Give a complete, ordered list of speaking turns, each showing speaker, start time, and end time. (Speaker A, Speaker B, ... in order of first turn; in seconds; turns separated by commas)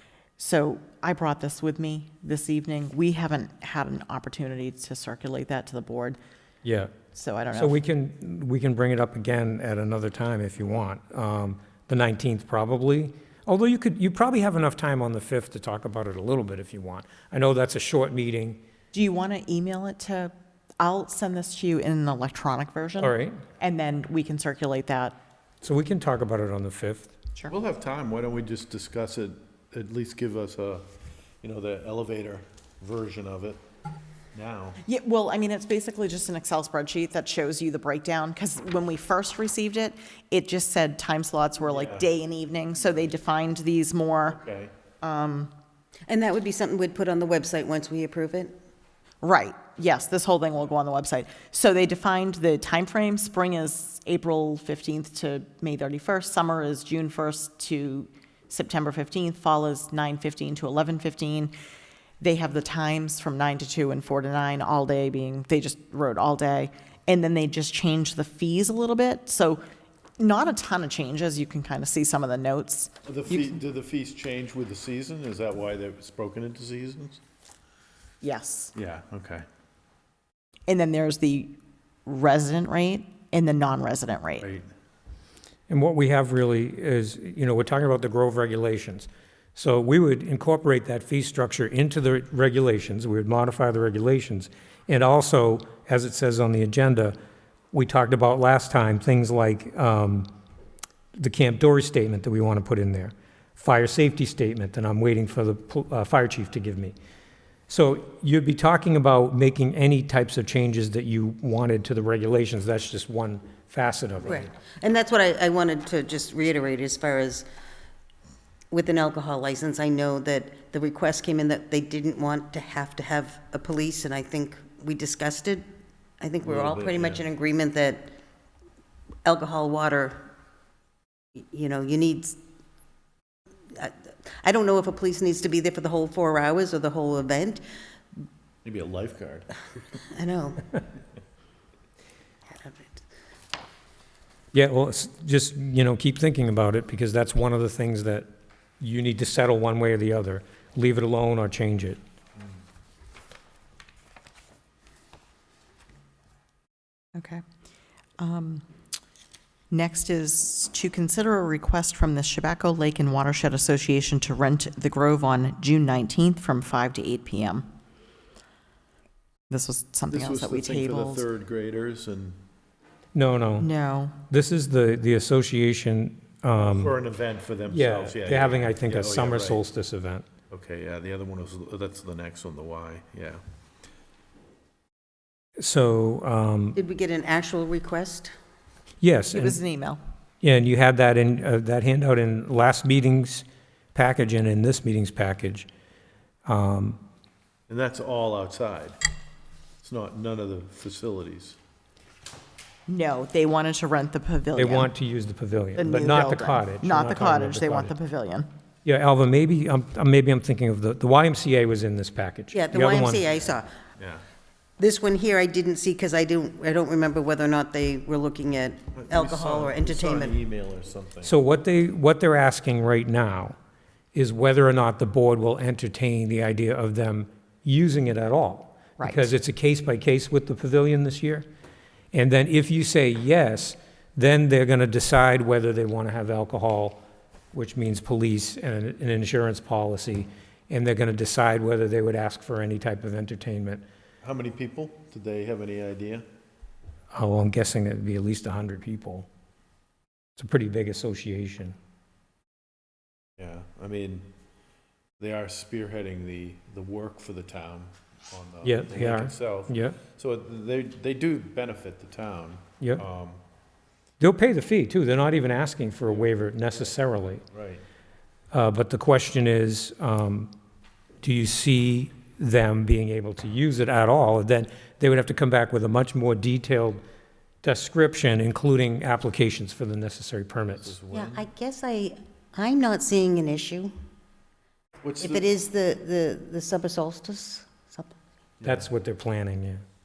Speaker A: 0.4-6.2, Speaker B: 6.6-6.9, Speaker A: 7.1-7.8, Speaker B: 7.5-18.6, Speaker A: 18.9-25.2, Speaker B: 23.0-23.4, Speaker B: 25.6-27.1, Speaker C: 27.5-30.8, Speaker C: 31.4-33.6, Speaker C: 34.3-34.8, Speaker A: 34.8-44.4, Speaker C: 41.7-42.1, Speaker C: 44.3-44.7, Speaker A: 45.0-45.5, Speaker D: 46.1-48.6, Speaker A: 49.2-61.5, Speaker A: 62.2-69.6, Speaker A: 70.2-73.5, Speaker C: 73.0-77.2, Speaker A: 78.2-78.7, Speaker C: 78.7-79.4, Speaker A: 80.7-81.5, Speaker A: 82.0-84.5, Speaker C: 84.4-84.7, Speaker B: 85.7-97.1, Speaker B: 97.7-100.3, Speaker B: 101.2-106.9, Speaker B: 107.7-114.5, Speaker D: 114.3-117.5, Speaker D: 118.7-125.7, Speaker D: 126.2-128.1, Speaker C: 126.4-127.2, Speaker D: 129.2-130.2, Speaker D: 131.4-132.4, Speaker D: 133.7-137.6, Speaker C: 138.6-139.6, Speaker D: 140.1-140.6, Speaker D: 142.5-143.0, Speaker B: 144.5-148.3, Speaker B: 148.8-152.0, Speaker A: 157.2-157.4, Speaker A: 158.2-158.7, Speaker A: 159.7-167.7, Speaker A: 169.5-171.2, Speaker C: 170.1-172.4, Speaker B: 173.1-173.7, Speaker A: 173.6-174.2, Speaker B: 174.3-176.9, Speaker C: 176.7-179.6, Speaker B: 177.7-180.3, Speaker C: 180.5-183.4, Speaker B: 185.6-186.8, Speaker D: 186.8-188.3, Speaker B: 189.0-189.6, Speaker A: 189.3-190.0, Speaker B: 190.4-195.7, Speaker B: 196.4-197.0, Speaker C: 197.7-199.0, Speaker C: 199.8-201.6, Speaker A: 202.9-204.9, Speaker B: 204.5-207.9, Speaker A: 205.8-208.5, Speaker B: 208.8-213.2, Speaker D: 212.5-213.7, Speaker C: 214.0-214.2, Speaker D: 214.8-220.3, Speaker C: 218.9-221.4, Speaker B: 221.2-223.6, Speaker B: 224.1-231.4, Speaker A: 229.0-229.3, Speaker B: 232.1-237.0, Speaker B: 237.5-243.8, Speaker C: 244.2-246.2, Speaker B: 247.1-249.3, Speaker B: 250.4-251.8, Speaker C: 253.4-254.3, Speaker C: 255.2-263.4, Speaker B: 258.6-260.0, Speaker B: 264.2-267.4, Speaker C: 267.5-267.8, Speaker B: 268.5-270.5, Speaker B: 271.2-277.0, Speaker B: 277.6-280.9, Speaker C: 280.8-281.4, Speaker D: 281.1-283.9, Speaker C: 285.0-285.5, Speaker D: 285.2-288.1, Speaker C: 288.6-288.9, Speaker B: 288.6-289.8